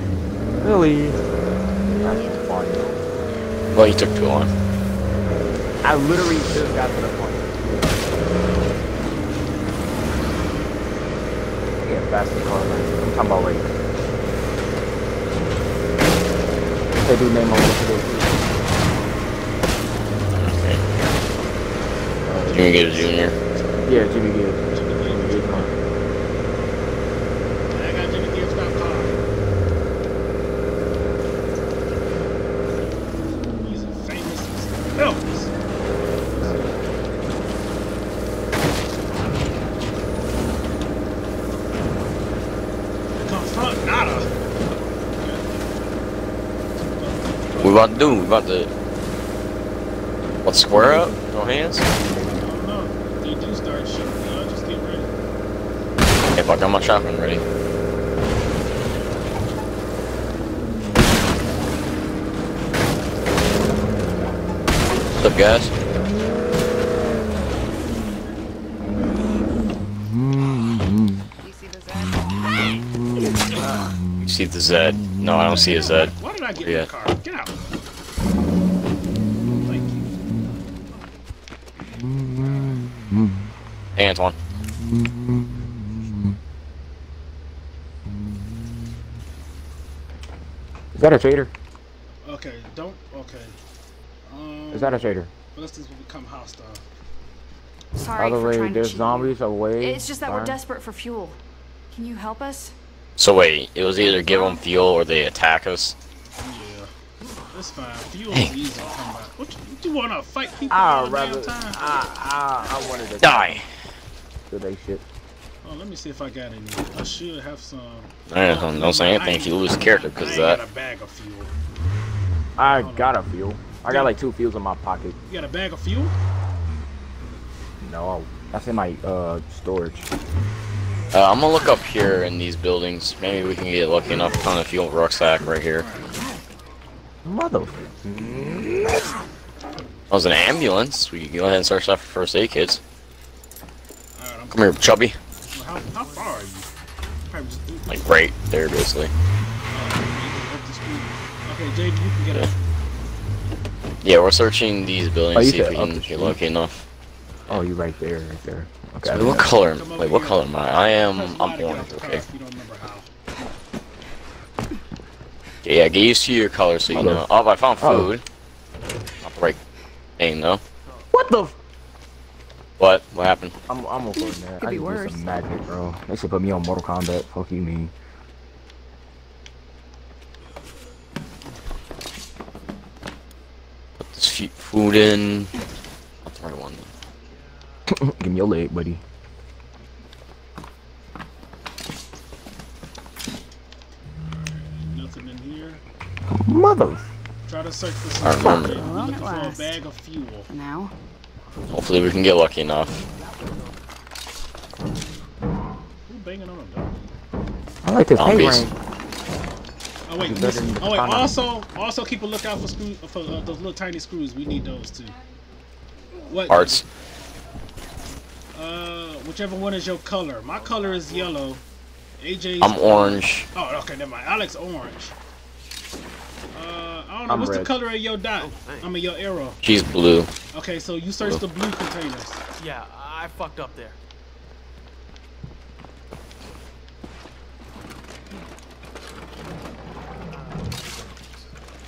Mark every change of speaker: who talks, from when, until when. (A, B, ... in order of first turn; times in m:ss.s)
0:00.6-0:01.3 A
0:01.9-0:03.0 A
0:03.7-0:04.5 B
0:05.8-0:08.0 A
0:11.9-0:13.7 A
0:17.0-0:18.6 A
0:20.4-0:20.8 B
0:22.2-0:23.0 A
0:22.5-0:23.4 B
0:23.0-0:25.7 C
0:23.8-0:25.8 A
0:27.7-0:29.2 C
0:33.6-0:35.5 C
0:36.3-0:36.8 C
0:36.4-0:36.7 A
0:43.2-0:44.3 C
0:45.1-0:45.6 C
0:47.0-0:48.3 C
0:47.6-0:48.7 B
0:50.4-0:51.9 B
0:50.7-0:51.1 A
0:52.2-0:55.1 C
0:56.3-0:57.4 B
1:05.2-1:05.7 B
1:09.7-1:11.3 A
1:11.4-1:12.8 D
1:12.0-1:14.3 A
1:14.2-1:16.9 B
1:14.8-1:15.7 A
1:15.5-1:17.8 C
1:19.1-1:20.6 A
1:19.6-1:20.1 C
1:21.9-1:23.5 A
1:24.0-1:24.4 B
1:24.6-1:26.4 A
1:28.1-1:29.0 A
1:31.0-1:31.5 A
1:32.2-1:33.6 C
1:34.3-1:36.8 C
1:34.7-1:35.3 A
1:38.0-1:41.4 D
1:38.1-1:40.6 A
1:41.9-1:42.7 D
1:43.2-1:46.0 B
1:44.1-1:44.6 D
1:46.4-1:46.9 C
1:47.5-1:51.8 C
1:50.7-1:53.6 A
1:53.2-1:53.7 B
1:54.5-1:55.0 A
1:55.6-2:01.6 C
1:58.3-2:00.6 B
2:02.6-2:05.2 A
2:02.7-2:03.2 C
2:03.9-2:04.1 C
2:05.3-2:06.1 C
2:07.8-2:10.1 A
2:11.1-2:15.9 B
2:15.8-2:16.2 C
2:17.2-2:19.2 A
2:20.1-2:22.8 B
2:24.2-2:24.8 C
2:24.5-2:25.2 B
2:25.5-2:26.7 C
2:27.3-2:28.1 C
2:27.9-2:29.1 B
2:29.7-2:32.6 C
2:34.0-2:36.8 B
2:35.3-2:36.4 A
2:37.5-2:39.5 A
2:39.0-2:42.2 B
2:39.7-2:40.4 C
2:41.0-2:43.1 C
2:45.6-2:48.2 B
2:46.9-2:47.2 A
2:47.8-2:48.1 A
2:49.2-2:49.6 B
2:50.2-2:50.6 B
2:51.1-2:51.6 A
2:52.8-2:53.5 B
2:53.7-2:57.9 A
2:54.2-2:55.2 D
3:04.0-3:05.5 B
3:06.3-3:06.9 B
3:07.9-3:09.0 A
3:14.2-3:15.8 C
3:16.3-3:17.0 A
3:17.5-3:20.5 C
3:18.2-3:18.8 B
3:18.8-3:19.8 D
3:20.5-3:20.9 D
3:21.7-3:22.9 B
3:26.1-3:27.0 C
3:27.8-3:28.7 A
3:28.2-3:28.7 B
3:30.1-3:35.2 C
3:30.2-3:31.4 A
3:36.2-3:36.8 C
3:36.5-3:36.8 B
3:38.6-3:41.6 C
3:40.5-3:41.4 E
3:42.2-3:45.1 C
3:42.6-3:43.5 B
3:46.5-3:49.6 C
3:47.3-3:47.7 A
3:48.4-3:49.0 E
3:49.6-3:50.3 B
3:50.5-3:52.4 C
3:52.6-3:54.0 E
4:00.4-4:00.7 E